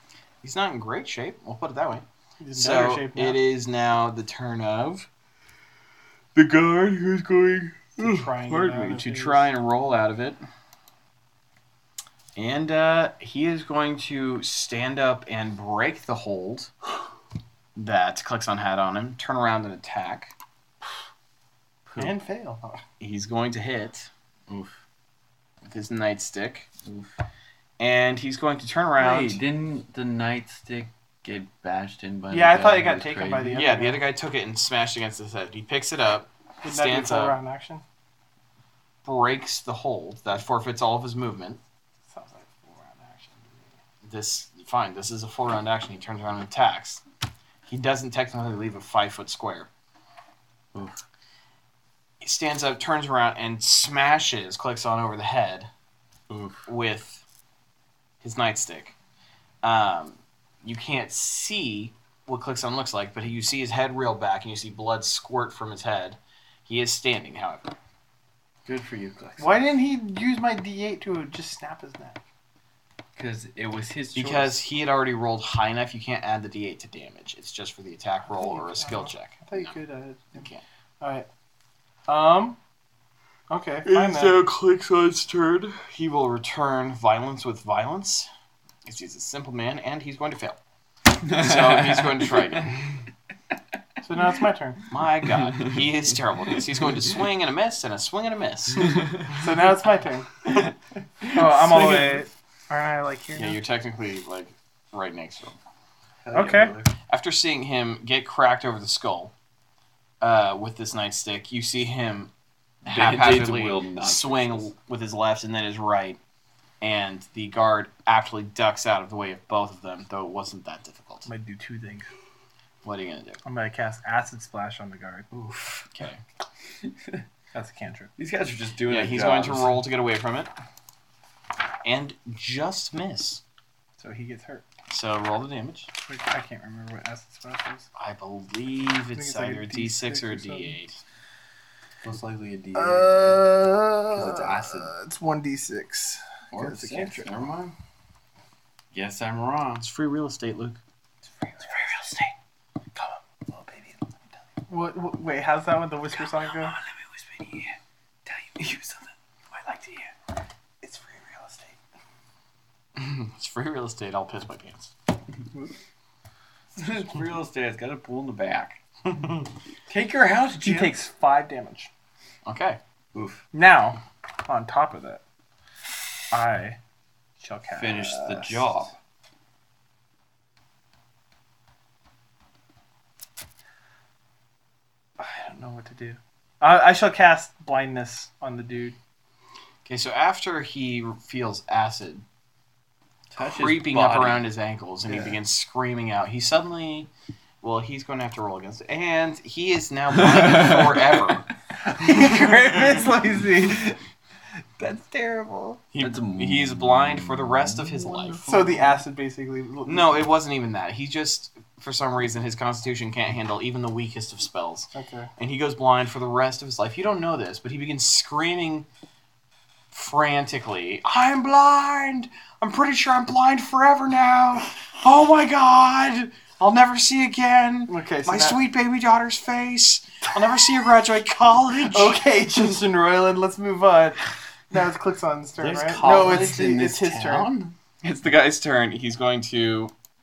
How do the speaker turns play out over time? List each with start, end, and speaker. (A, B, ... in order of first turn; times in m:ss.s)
0:00.4-0:05.1 A
0:02.4-0:03.4 B
0:06.3-0:10.4 A
0:08.0-0:09.5 B
0:12.3-0:16.7 A
0:17.8-0:20.3 A
0:21.8-0:22.1 C
0:22.0-0:22.8 B
0:23.0-0:24.1 A
0:24.5-0:24.8 C
0:25.6-0:26.7 A
0:26.8-0:27.1 C
0:27.8-0:29.4 A
0:29.0-0:33.6 C
0:32.3-0:34.0 B
0:33.5-0:37.4 A
0:36.6-0:37.8 B
0:39.0-0:41.6 A
0:42.1-0:43.8 B
0:44.0-0:47.0 A
0:47.6-0:49.7 A
0:52.2-0:55.7 A
0:56.3-0:56.6 C
0:56.6-0:57.2 A
0:58.2-0:59.0 A
0:59.6-1:07.7 A
1:08.6-1:09.6 C
1:09.4-1:12.2 B
1:13.2-1:14.6 C
1:14.1-1:19.8 A
1:18.3-1:20.5 B
1:20.3-1:20.6 A
1:21.0-1:21.2 B
1:22.1-1:22.6 B
1:23.5-1:24.4 B
1:23.9-1:25.7 C
1:24.2-1:24.6 A
1:25.5-1:28.3 A
1:28.8-1:30.6 A
1:31.2-1:32.7 C
1:31.3-1:33.0 A
1:34.0-1:34.8 B
1:34.9-1:39.0 A
1:35.3-1:35.8 C
1:38.8-1:39.4 C
1:39.3-1:40.5 B
1:40.5-1:42.2 C
1:41.3-1:43.6 B
1:43.3-1:45.6 A
1:46.2-1:46.9 C
1:46.3-1:46.7 B
1:47.1-1:49.3 A
1:50.2-1:52.3 A
1:52.8-1:54.7 C
1:52.8-1:56.2 A
1:56.8-2:01.3 A
2:01.2-2:02.1 B
2:02.8-2:03.4 A
2:03.4-2:05.3 B
2:05.3-2:06.2 A
2:06.8-2:07.2 C
2:07.5-2:08.1 B
2:08.2-2:09.8 C
2:08.9-2:10.5 A
2:11.8-2:13.4 A
2:14.0-2:14.6 B
2:14.9-2:15.9 A
2:16.0-2:17.9 B
2:18.0-2:21.0 A
2:19.2-2:20.8 B
2:22.0-2:23.5 C
2:22.7-2:27.5 B
2:24.1-2:24.9 C
2:26.5-2:27.7 C
2:28.9-2:29.8 C
2:29.8-2:30.8 A
2:31.4-2:31.9 B
2:33.0-2:34.0 B
2:34.7-2:36.8 B
2:37.4-2:37.7 C
2:38.3-2:39.0 C
2:39.6-2:40.0 C
2:40.8-2:41.8 B
2:43.0-2:44.9 A
2:46.7-2:48.8 C
2:49.9-2:50.9 C
2:50.6-2:51.9 B
2:52.4-2:52.8 A
2:53.1-2:53.4 C
2:53.5-2:55.2 B
2:56.3-2:56.8 B
2:57.4-2:58.7 B
2:57.7-2:58.9 C
3:05.2-3:09.0 B
3:09.8-3:12.2 A
3:13.3-3:14.4 C
3:13.4-3:17.1 A
3:15.1-3:15.4 C
3:17.6-3:21.5 A
3:20.3-3:21.2 C
3:21.8-3:24.0 B
3:24.8-3:25.8 B
3:25.9-3:28.5 A
3:26.0-3:28.9 C
3:28.4-3:30.3 B
3:29.8-3:38.9 A
3:34.9-3:35.3 B
3:39.9-3:52.2 A
3:47.9-3:48.6 B
3:51.8-3:57.5 B
3:55.6-3:57.7 C
3:58.0-3:59.9 A